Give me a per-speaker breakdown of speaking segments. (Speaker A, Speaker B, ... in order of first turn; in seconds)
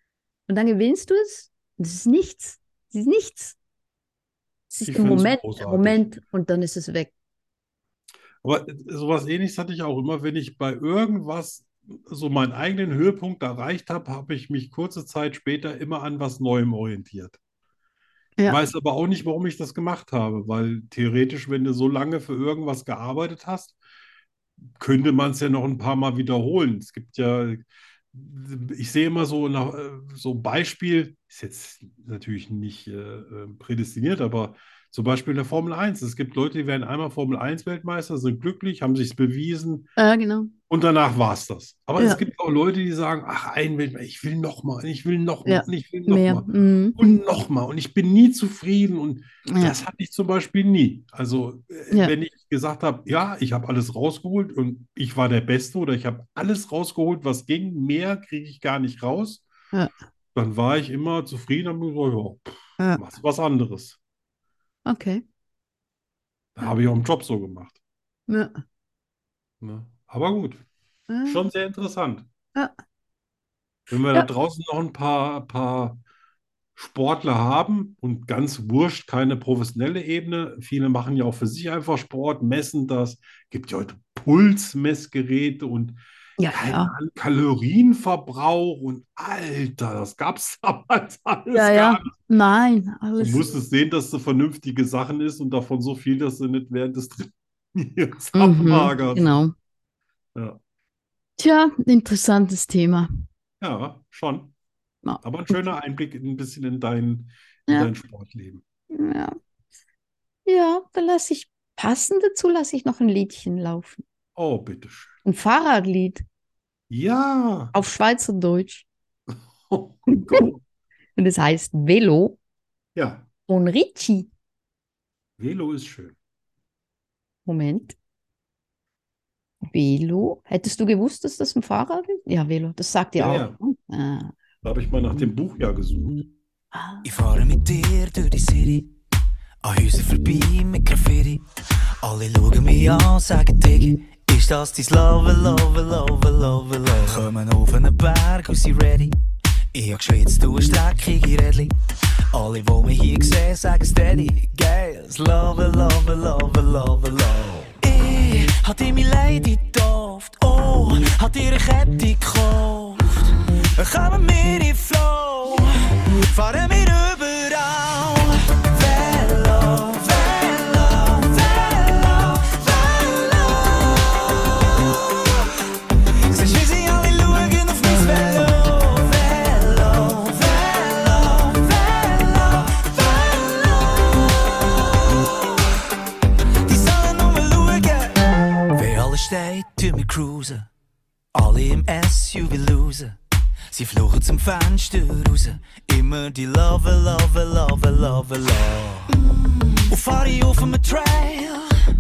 Speaker A: 0.5-3.6, 4.7-7.1, 40.0-40.5, 45.5-47.0, 49.5-49.8, 64.9-65.2, 68.3-68.6, 71.1-71.4, 86.4-87.0, 91.5-93.5, 98.3-99.5, 101.4-103.1, 105.0-105.6, 108.9-109.3, 110.5-114.0, 115.2-116.2, 117.7-118.9, 120.1-120.4, 121.2-122.4, 123.5-124.3, 127.5-128.0, 129.7-134.3, 136.7-137.1
Speaker B: 4.8-6.1, 8.4-17.4, 18.5-23.8, 24.8-39.9, 40.7-59.5, 60.4-64.0, 66.5-67.8, 69.6-70.7, 71.3-72.3, 73.9-76.0, 76.8-92.1, 93.2-99.4, 100.3-100.6, 103.6-104.5, 105.2-108.6, 114.4-115.2, 116.9-117.7, 119.3-120.6, 123.0-123.3, 125.4-126.2, 133.2-133.6, 134.6-136.1
Speaker C: 137.0-138.9, 139.6-141.4, 142.0-149.1, 149.7-151.7, 152.3-165.7, 166.3-175.5, 176.3-185.7, 186.7-190.7, 191.3-193.2, 193.7-199.2, 199.8-201.7